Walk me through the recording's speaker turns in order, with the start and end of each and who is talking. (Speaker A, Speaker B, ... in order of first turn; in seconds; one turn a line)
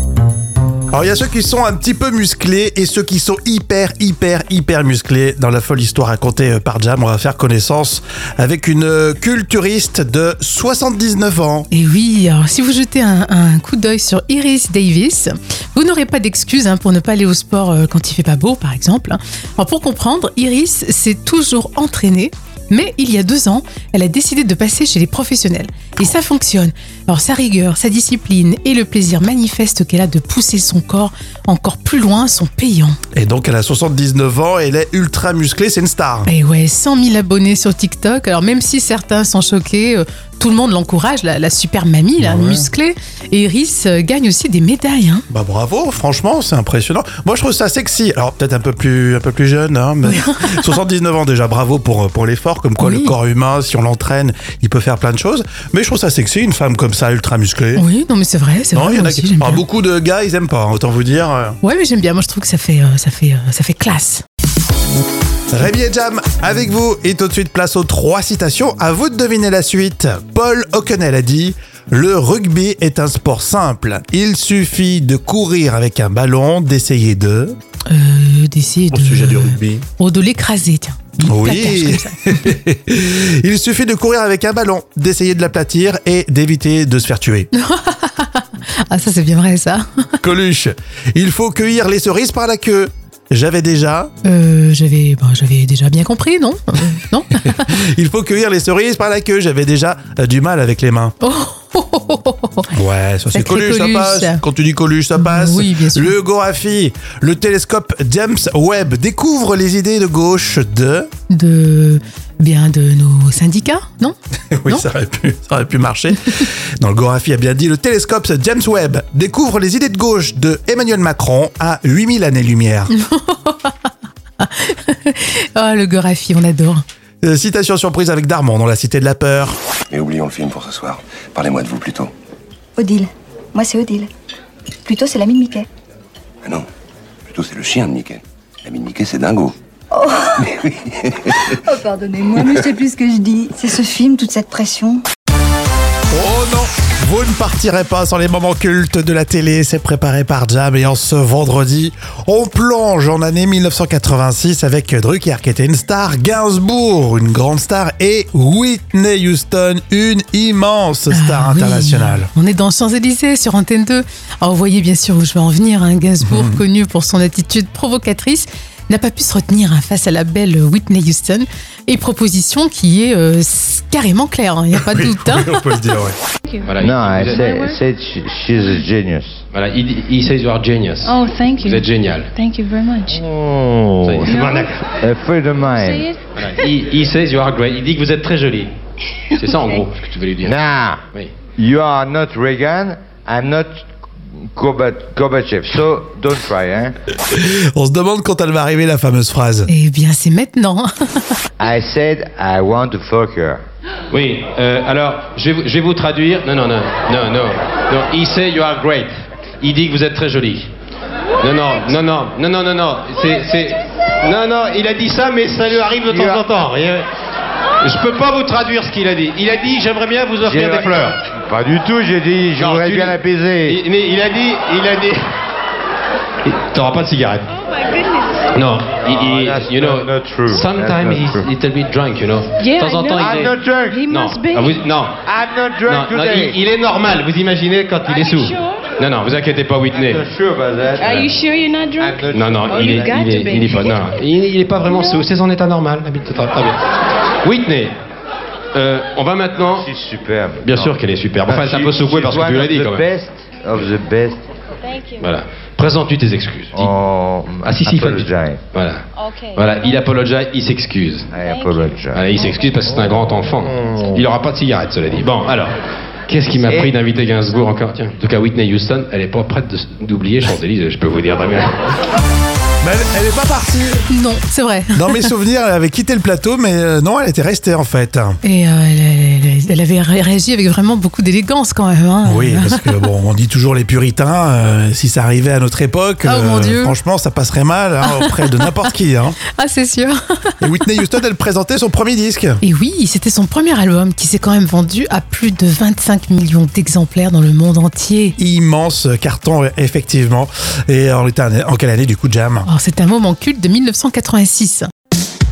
Speaker A: 0.9-11.7
Speaker B: 11.7-33.0
Speaker A: 33.1-36.3
Speaker B: 36.2-45.2
Speaker A: 42.2-42.7
Speaker A: 45.3-57.8
Speaker B: 50.0-50.7
Speaker B: 52.8-53.1
Speaker B: 57.7-59.6
Speaker A: 58.7-61.6
Speaker B: 61.6-64.2
Speaker A: 65.5-77.5
Speaker B: 77.9-82.4
Speaker A: 78.9-79.8
Speaker A: 81.2-87.5
Speaker B: 87.5-90.1
Speaker A: 90.2-94.1
Speaker B: 94.2-97.7
Speaker A: 97.4-101.1
Speaker B: 101.2-102.7
Speaker A: 102.7-111.1
Speaker B: 103.3-104.4
Speaker B: 105.1-106.1
Speaker B: 111.3-114.2
Speaker A: 114.5-122.9
Speaker B: 122.9-126.8
Speaker A: 127.2-129.6
Speaker C: 129.9-132.1
Speaker D: 132.8-134.1
Speaker D: 134.8-135.7
Speaker C: 137.3-139.5
Speaker D: 139.9-140.4
Speaker C: 140.4-141.7
Speaker D: 141.6-145.0
Speaker C: 142.3-142.7
Speaker A: 146.1-162.3
Speaker B: 161.1-175.6
Speaker A: 166.2-166.6
Speaker A: 174.8-176.2
Speaker E: 176.5-177.8
Speaker F: 176.6-177.5
Speaker G: 176.8-179.4
Speaker F: 179.5-182.3
Speaker E: 181.0-183.2
Speaker G: 183.1-186.1
Speaker F: 184.0-184.8
Speaker E: 184.2-184.7
Speaker E: 185.7-186.2
Speaker F: 186.3-188.7
Speaker F: 189.3-191.3
Speaker G: 190.4-191.0
Speaker G: 191.6-193.8
Speaker G: 194.4-196.9
Speaker A: 197.3-199.7
Speaker B: 199.7-201.4
Speaker G: 201.6-203.6
Speaker F: 204.1-210.7
Speaker F: 211.4-217.1
Speaker G: 216.0-216.4
Speaker F: 217.8-221.2
Speaker G: 220.4-223.8
Speaker F: 222.6-225.3
Speaker F: 226.4-227.5
Speaker F: 228.5-233.6
Speaker G: 229.0-231.5
Speaker E: 232.6-234.8
Speaker G: 233.1-234.0
Speaker F: 234.1-235.3
Speaker G: 235.2-236.6
Speaker F: 235.8-240.2
Speaker G: 239.9-241.3
Speaker E: 241.0-244.1
Speaker F: 241.0-241.3
Speaker G: 242.0-243.3
Speaker F: 242.3-246.8
Speaker F: 247.4-247.9
Speaker F: 248.7-249.9
Speaker G: 249.6-254.4
Speaker F: 250.6-253.1
Speaker F: 255.2-256.9
Speaker G: 256.7-258.6
Speaker F: 257.6-261.3
Speaker G: 261.3-262.3
Speaker E: 261.4-262.4
Speaker F: 262.1-265.8
Speaker G: 263.9-264.2
Speaker F: 266.3-271.7
Speaker G: 266.6-266.9
Speaker A: 272.8-274.1
Speaker B: 274.1-275.3
Speaker A: 274.9-278.4
Speaker B: 278.4-282.9
Speaker A: 282.2-289.4
Speaker B: 286.2-286.9
Speaker B: 288.1-288.7
Speaker B: 289.5-290.6
Speaker A: 290.6-292.6
Speaker B: 292.6-298.4
Speaker A: 298.4-302.7
Speaker B: 302.6-304.9